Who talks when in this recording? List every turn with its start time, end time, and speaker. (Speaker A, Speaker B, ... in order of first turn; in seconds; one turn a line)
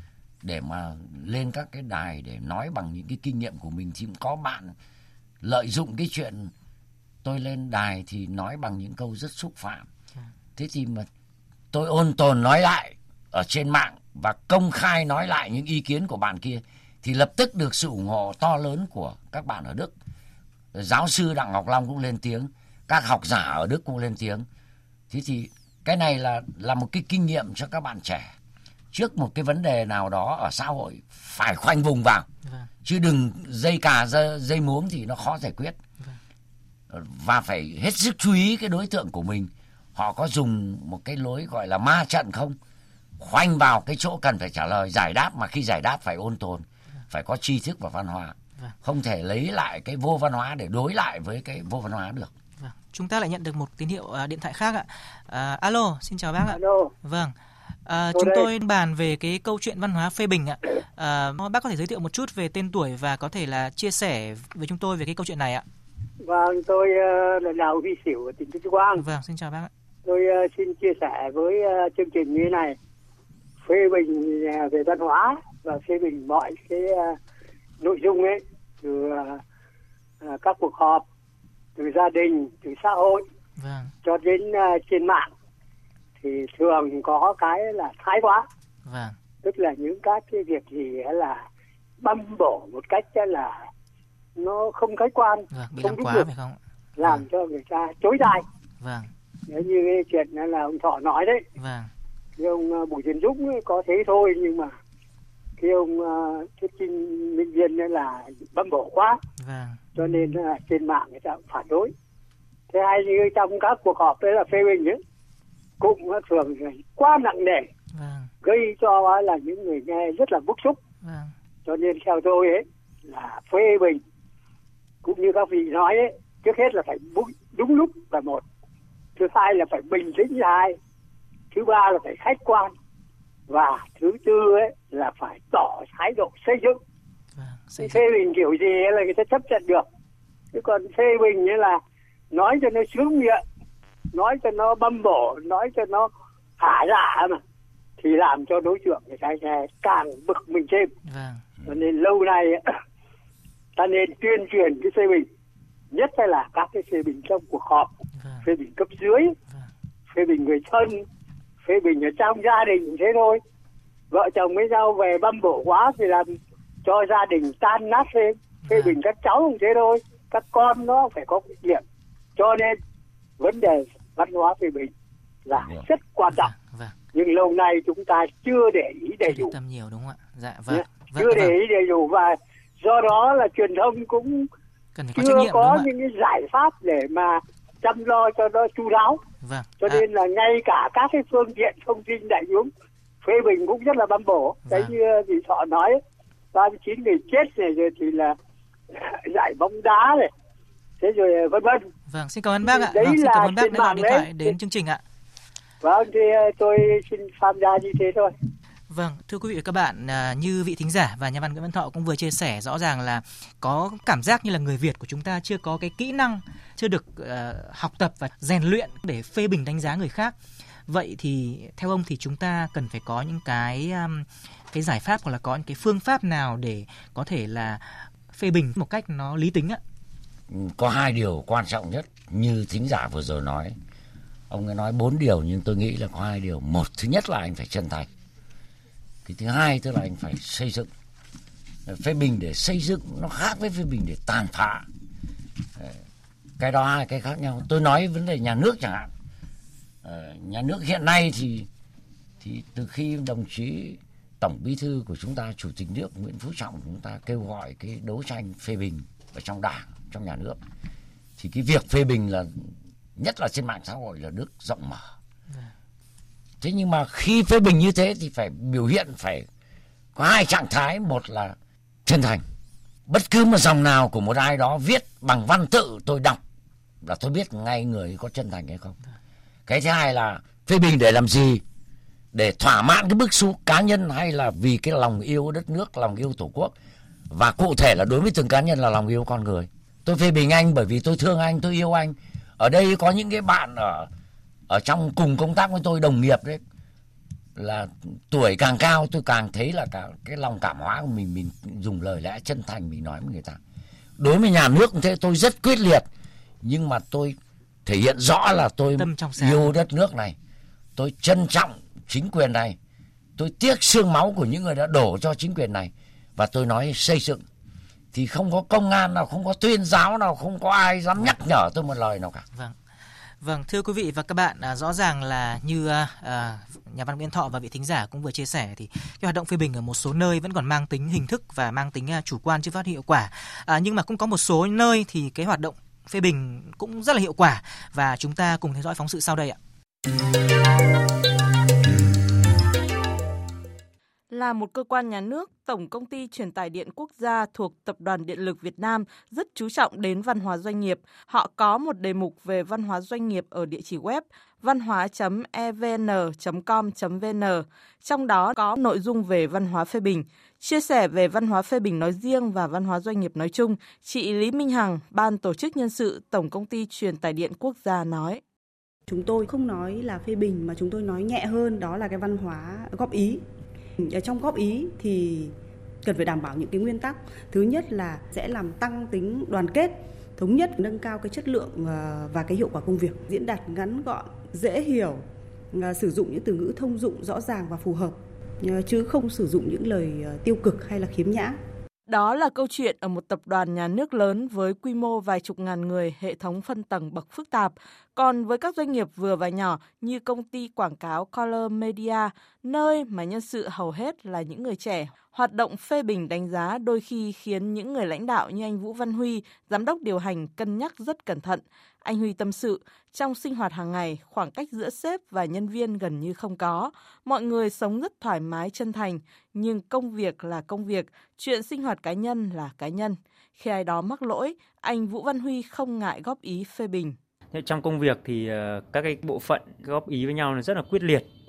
Speaker A: 0.4-4.8
Speaker A: 5.4-6.5
Speaker A: 7.2-9.9
Speaker A: 10.6-11.1
Speaker A: 11.7-19.9
Speaker A: 20.7-24.5
Speaker A: 25.1-28.3
Speaker A: 28.9-32.3
Speaker A: 32.8-35.8
Speaker A: 36.9-42.6
Speaker A: 43.2-52.3
Speaker B: 52.6-57.4
Speaker C: 56.5-56.9
Speaker B: 57.9-65.7
Speaker C: 58.1-58.5
Speaker C: 66.2-69.0
Speaker B: 69.0-69.7
Speaker C: 70.1-72.8
Speaker C: 73.6-77.2
Speaker C: 77.8-79.4
Speaker C: 80.2-81.0
Speaker C: 81.8-83.2
Speaker B: 83.6-83.9
Speaker C: 84.0-85.3
Speaker C: 86.2-88.5
Speaker B: 88.8-89.2
Speaker C: 89.4-91.4
Speaker C: 92.0-93.7
Speaker C: 94.4-96.3
Speaker B: 95.5-97.3
Speaker C: 97.0-98.5
Speaker B: 98.8-99.1
Speaker C: 99.5-101.4
Speaker B: 101.6-101.9
Speaker C: 102.4-104.8
Speaker C: 105.6-109.2
Speaker B: 109.4-110.4
Speaker C: 110.0-111.9
Speaker C: 112.7-115.0
Speaker C: 115.8-117.7
Speaker B: 117.9-118.3
Speaker C: 118.4-120.8
Speaker B: 121.0-121.3
Speaker C: 121.7-124.0
Speaker C: 125.0-128.4
Speaker C: 129.2-130.8
Speaker C: 131.5-132.7
Speaker C: 133.5-136.8
Speaker B: 137.4-138.0
Speaker C: 137.8-139.8
Speaker C: 140.5-141.8
Speaker C: 142.3-143.4
Speaker C: 144.1-147.4
Speaker C: 148.0-150.9
Speaker B: 151.1-151.4
Speaker C: 151.7-152.6
Speaker C: 153.8-155.3
Speaker C: 155.9-157.9
Speaker B: 158.2-158.4
Speaker C: 158.4-159.3
Speaker C: 160.1-161.0
Speaker C: 161.7-163.4
Speaker C: 164.1-171.8
Speaker B: 168.7-169.0
Speaker C: 172.4-172.8
Speaker C: 173.4-174.9
Speaker C: 175.5-176.5
Speaker A: 175.6-175.9
Speaker B: 176.3-176.9
Speaker C: 177.1-179.5
Speaker B: 179.3-181.5
Speaker C: 180.7-184.5
Speaker B: 184.9-185.9
Speaker C: 185.2-189.2
Speaker B: 189.4-190.0
Speaker C: 189.8-192.7
Speaker C: 193.2-196.0
Speaker B: 194.7-194.9
Speaker C: 196.5-198.3
Speaker C: 198.9-200.3
Speaker C: 201.0-201.8
Speaker B: 202.1-205.0
Speaker C: 202.6-204.5
Speaker C: 205.8-208.3
Speaker B: 208.9-220.3
Speaker B: 220.9-229.8
Speaker A: 230.5-233.8
Speaker A: 234.5-238.1
Speaker A: 239.2-240.9
Speaker A: 241.9-244.9
Speaker A: 246.6-249.1
Speaker A: 250.0-251.7
Speaker A: 252.4-260.6
Speaker A: 261.4-265.1
Speaker A: 266.6-269.5
Speaker A: 270.1-272.4
Speaker A: 273.1-276.4
Speaker A: 277.0-279.0
Speaker A: 279.7-281.6
Speaker A: 282.3-286.7
Speaker A: 287.3-294.1
Speaker A: 294.7-296.6
Speaker A: 297.6-303.6
Speaker A: 304.2-306.1
Speaker A: 306.6-310.4
Speaker B: 309.0-309.8
Speaker A: 311.0-312.8
Speaker A: 313.4-317.4
Speaker A: 318.1-322.5
Speaker B: 323.4-339.6
Speaker D: 344.3-368.4
Speaker E: 369.1-373.4
Speaker E: 374.0-391.6
Speaker D: 392.1-427.2
Speaker F: 427.5-431.3